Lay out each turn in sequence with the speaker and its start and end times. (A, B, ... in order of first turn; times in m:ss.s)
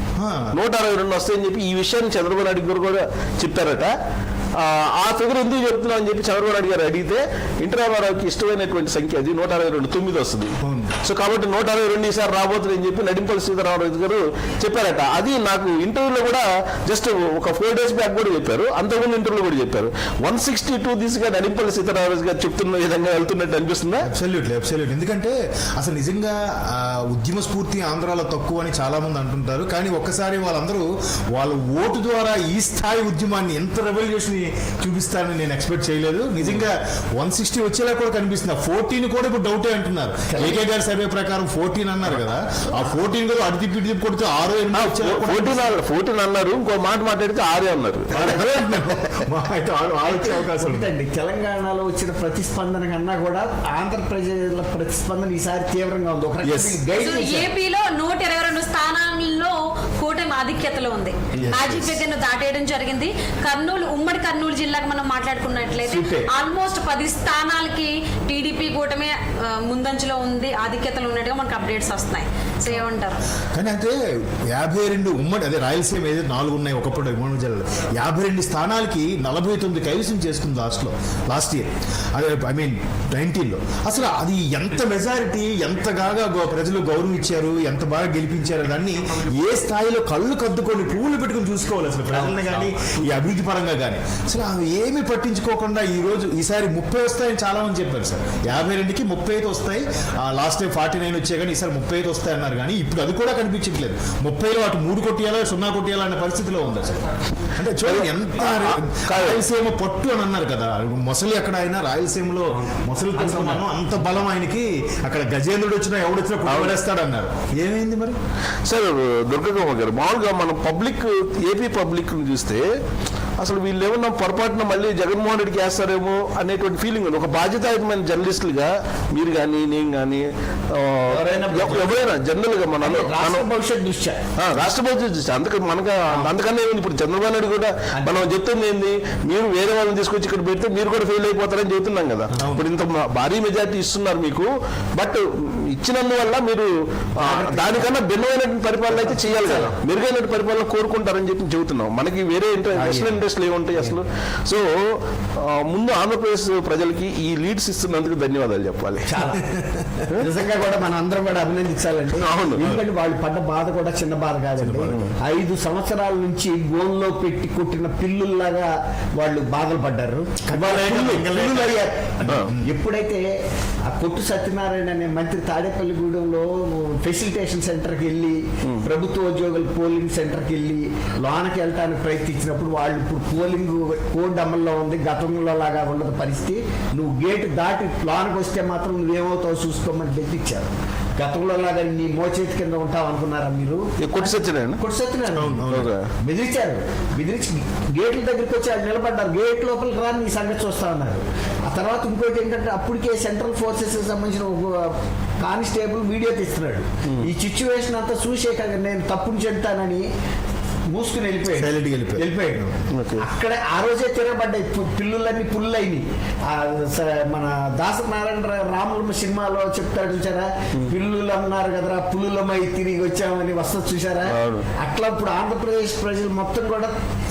0:00.2-0:00.6 A
0:00.5-0:04.0 B
0:04.6-0:24.1 B
0:10.6-0:11.0 A
0:24.0-0:45.7 A
0:40.3-0:40.6 C
0:44.7-0:48.4 B
0:48.1-0:50.9 A
0:50.0-0:57.5 C
0:56.5-0:56.8 A
0:57.0-1:13.2 D
1:01.4-1:02.0 A
1:05.8-1:06.3 C
1:13.5-1:47.0 A
1:47.6-1:58.2 A
1:47.8-1:49.4 B
1:53.2-1:53.5 C
1:56.5-1:56.8 B
1:58.7-2:02.7 B
2:03.4-2:13.5 B
2:11.1-2:12.0 C
2:12.8-2:14.2 C
2:14.4-2:39.1 B
2:17.9-2:18.3 C
2:22.4-2:22.6 A
2:27.2-2:27.9 C
2:28.9-2:29.8 C
2:32.7-2:33.2 C
2:39.1-2:39.6 C
2:39.6-2:40.0 A
2:40.2-2:53.3 C
2:42.2-2:42.7 B
2:42.6-2:42.8 A
2:44.6-2:45.0 A
2:50.4-2:52.7 A
2:53.8-3:15.6 C
3:14.0-3:14.8 B
3:15.3-3:15.9 A
3:15.7-3:16.1 B
3:16.2-3:30.1 C
3:30.9-3:46.9 C
3:31.5-3:32.3 A
3:32.9-3:33.2 B
3:44.3-3:44.7 B